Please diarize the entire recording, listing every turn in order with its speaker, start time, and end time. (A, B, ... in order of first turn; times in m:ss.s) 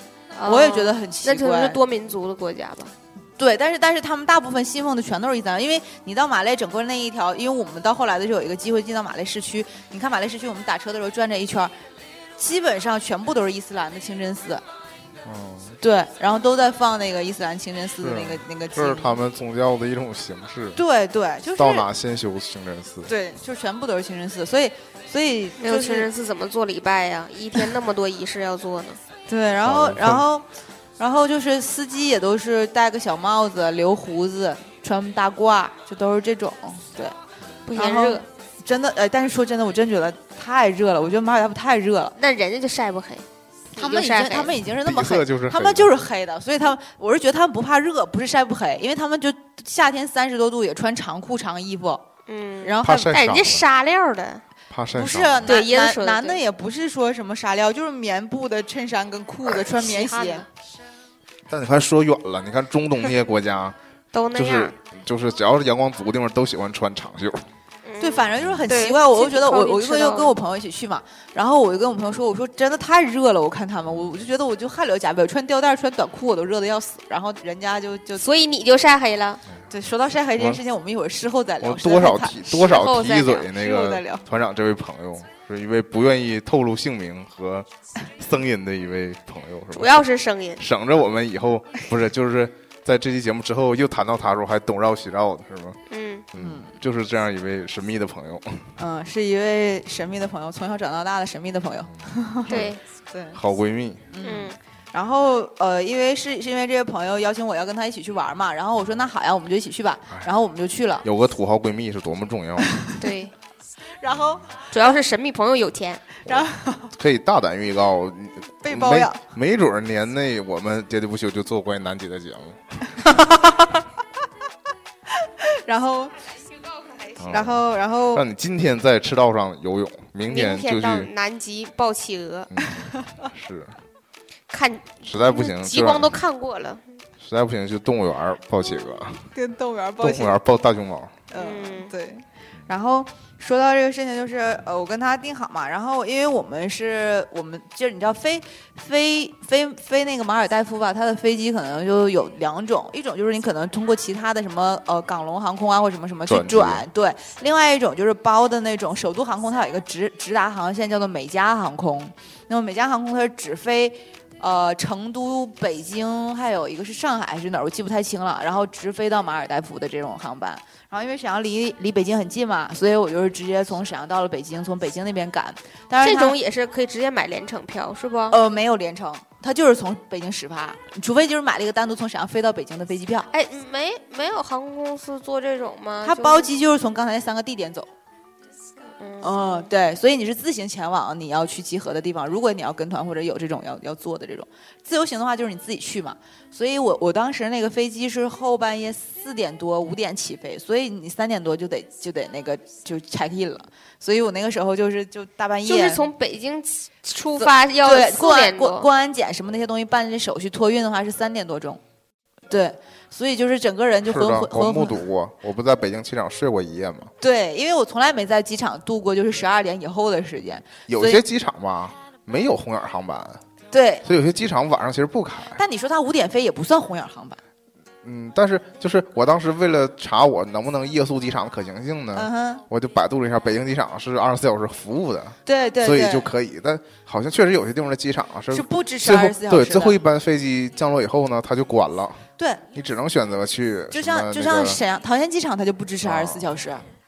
0:00.3-0:02.9 A
0:00.4-0:01.8 B
0:03.4-0:11.7 B
0:12.4-0:14.6 B
0:15.2-0:15.8 C
0:15.8-0:19.2 B
0:18.0-0:20.8 C
0:20.8-0:21.9 B
0:21.6-0:23.1 C
0:23.1-0:26.1 B
0:25.6-0:29.0 A
0:29.3-0:30.5 B
0:29.6-0:30.3 C
0:31.0-0:37.2 B
0:37.7-0:38.2 A
0:37.7-0:42.2 B
0:42.2-0:43.2 A
0:43.8-0:44.6 A
0:43.8-0:52.0 B
0:44.8-0:46.0 C
0:52.3-0:54.4 A
0:52.6-0:53.2 B
0:52.8-0:53.6 C
0:54.7-0:55.6 C
0:54.9-1:00.4 B
0:55.5-0:56.4 A
0:59.5-1:00.5 A
1:01.5-1:03.8 C
1:04.1-1:04.7 A
1:04.3-1:07.4 C
1:07.9-1:10.4 A
1:08.0-1:18.2 B
1:18.2-1:19.4 A
1:19.7-1:22.4 B
1:21.6-1:27.7 C
1:22.5-1:23.6 A
1:23.6-1:24.2 B
1:28.2-1:30.1 C
1:29.8-1:30.6 A
1:30.6-1:35.8 C
1:35.9-1:36.2 A
1:36.3-1:38.7 C
1:36.4-1:36.7 B
1:38.8-1:42.6 B
1:42.5-1:42.8 A
1:42.5-1:42.8 C
1:43.1-1:43.4 B
1:43.3-1:44.1 C
1:44.1-1:51.0 B
1:44.2-1:44.6 A
1:51.0-1:52.7 C
1:53.0-1:53.3 A
1:54.0-1:54.5 B
1:54.7-1:56.1 A
1:56.3-1:56.9 B
1:56.3-2:03.5 C
1:58.6-1:59.2 B
2:05.7-2:06.1 B
2:07.2-2:07.6 C
2:07.3-2:08.2 B
2:08.1-2:11.1 C
2:10.3-2:12.5 A
2:12.5-2:13.8 C
2:14.5-2:17.0 A
2:15.0-2:16.2 C
2:17.2-2:19.3 C
2:19.4-2:20.4 B
2:20.0-2:21.2 C
2:21.3-2:56.4 B
2:21.4-2:21.9 A
2:36.3-2:36.9 C
2:56.0-2:58.4 A
2:58.3-3:03.3 B
3:03.3-3:06.5 A
3:06.0-3:07.9 B
3:09.0-3:09.7 A
3:09.2-3:26.1 B
3:25.7-3:28.9 A
3:27.4-3:31.8 B
3:32.5-3:35.0 B
3:34.0-3:37.1 C
3:37.2-3:41.2 B
3:40.9-3:43.4 C
3:43.7-3:44.0 B
3:44.0-3:45.6 C
3:45.6-3:47.4 B
3:48.0-4:02.2 C
3:52.1-3:52.6 B
3:55.5-3:56.3 B
3:58.5-4:00.0 B
4:02.7-4:04.8 C
4:03.9-4:06.8 B
4:06.0-4:06.5 C